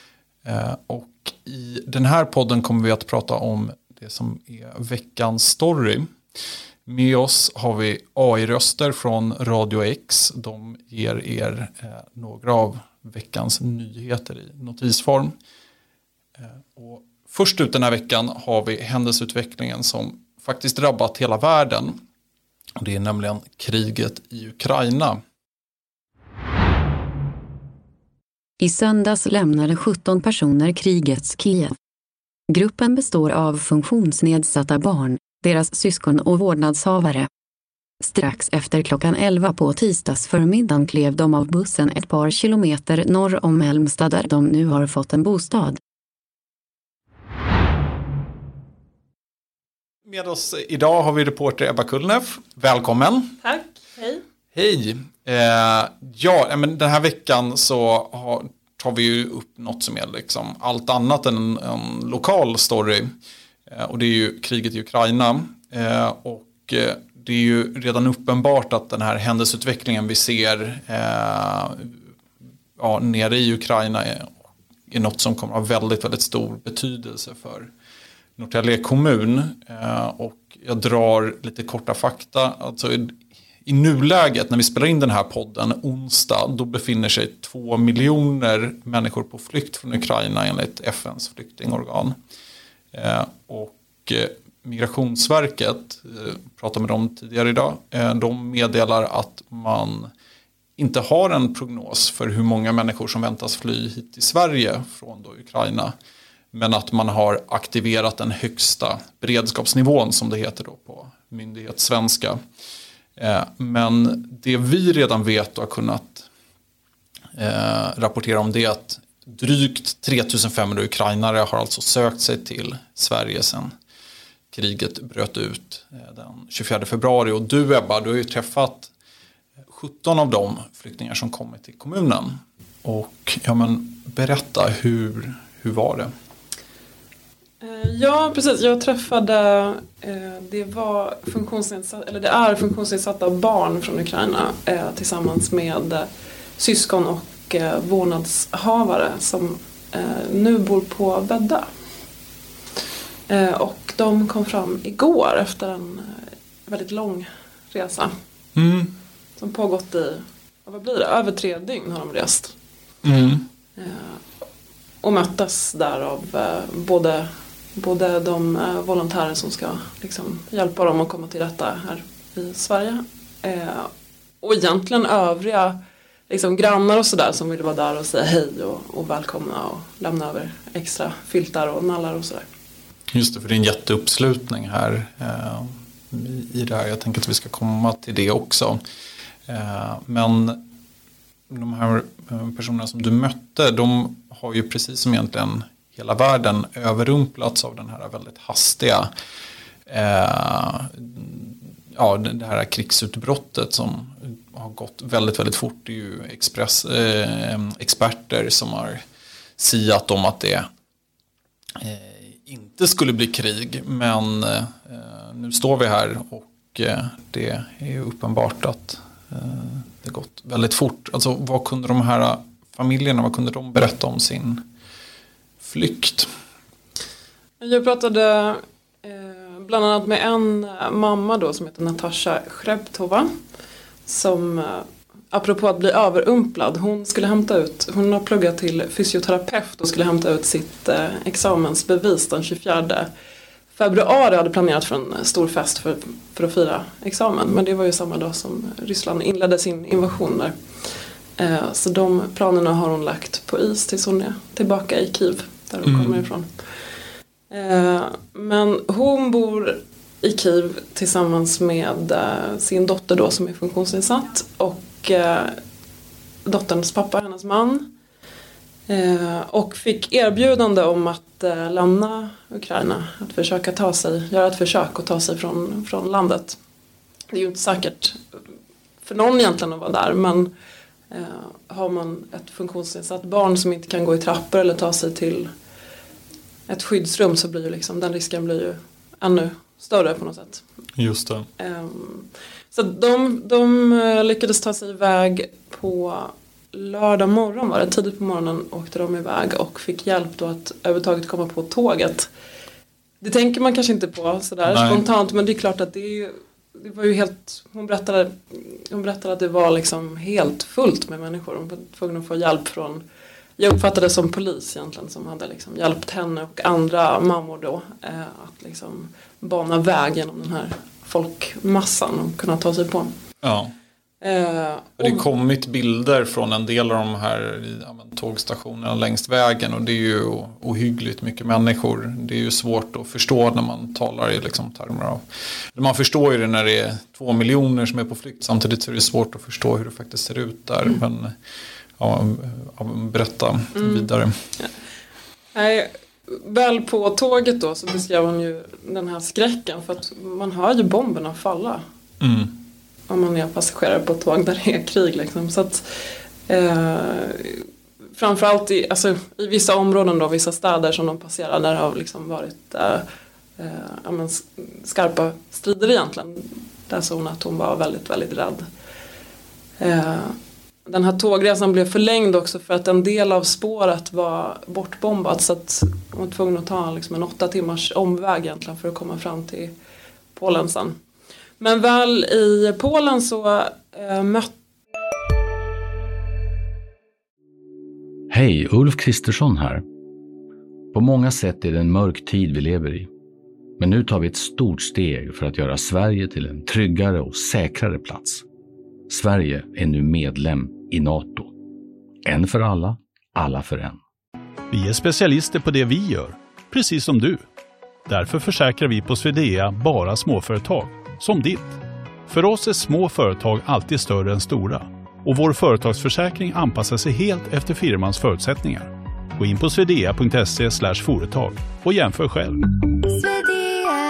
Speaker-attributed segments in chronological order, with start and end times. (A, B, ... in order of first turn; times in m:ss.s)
0:00.4-0:06.1 A
0:06.9-0:15.3 A
0:16.7-0:22.0 A
0:22.8-0:25.2 A
0:28.6-0:31.8 B
0:32.5-0:37.3 B
0:38.0-0:45.8 B
0:50.0-0:53.3 A
0:53.4-0:54.2 C
0:54.6-1:03.0 A
1:03.7-1:11.9 A
1:12.8-1:14.3 A
1:14.9-1:17.7 A
1:18.4-1:32.2 A
1:32.9-1:40.1 A
1:40.8-1:45.9 A
1:46.5-1:52.4 A
1:53.2-1:56.2 A
1:57.4-2:03.7 A
2:04.5-2:08.9 A
2:09.7-2:16.1 A
2:17.6-2:26.1 C
2:26.6-2:31.6 C
2:33.3-2:38.1 C
2:38.6-2:38.9 A
2:39.4-2:42.5 C
2:43.0-2:43.4 A
2:43.8-2:44.2 C
2:45.0-2:53.9 C
2:54.4-2:55.8 C
2:56.3-3:02.4 C
3:03.1-3:08.8 A
3:09.5-3:10.6 A
3:11.5-3:19.1 A
3:19.9-3:29.0 A
3:29.6-3:30.6 A
3:31.8-3:44.6 A
3:45.6-3:46.3 A
3:47.6-3:53.3 C
3:54.1-4:03.1 C
4:03.7-4:10.5 C
4:11.4-4:16.5 C
4:15.9-4:16.2 A
4:17.5-4:25.6 C
4:26.4-4:27.9 C
4:28.9-4:36.6 C
4:37.3-4:38.2 C
4:39.0-4:40.5 C
4:41.1-4:45.5 C
4:46.7-4:50.6 C
4:51.0-4:51.4 A
4:51.6-5:02.3 C
5:03.2-5:13.0 C
5:04.7-5:05.0 A
5:13.6-5:23.1 C
5:23.4-5:23.7 A
5:24.2-5:25.2 C
5:25.0-5:35.2 A
5:35.8-5:41.3 A
5:42.0-5:44.3 A
5:43.8-5:44.7 C
5:45.5-5:51.8 C
5:52.2-5:52.6 A
5:53.1-5:55.8 C
5:56.5-6:03.0 C
6:03.6-6:08.6 C
6:09.8-6:19.7 C
6:20.3-6:21.0 C
6:21.6-6:24.5 C
6:28.3-6:29.8 D
6:30.9-6:33.1 D
6:33.8-6:38.4 D
6:39.1-6:41.5 D
6:42.2-6:44.0 D
6:44.7-6:47.4 E
6:48.1-7:02.6 E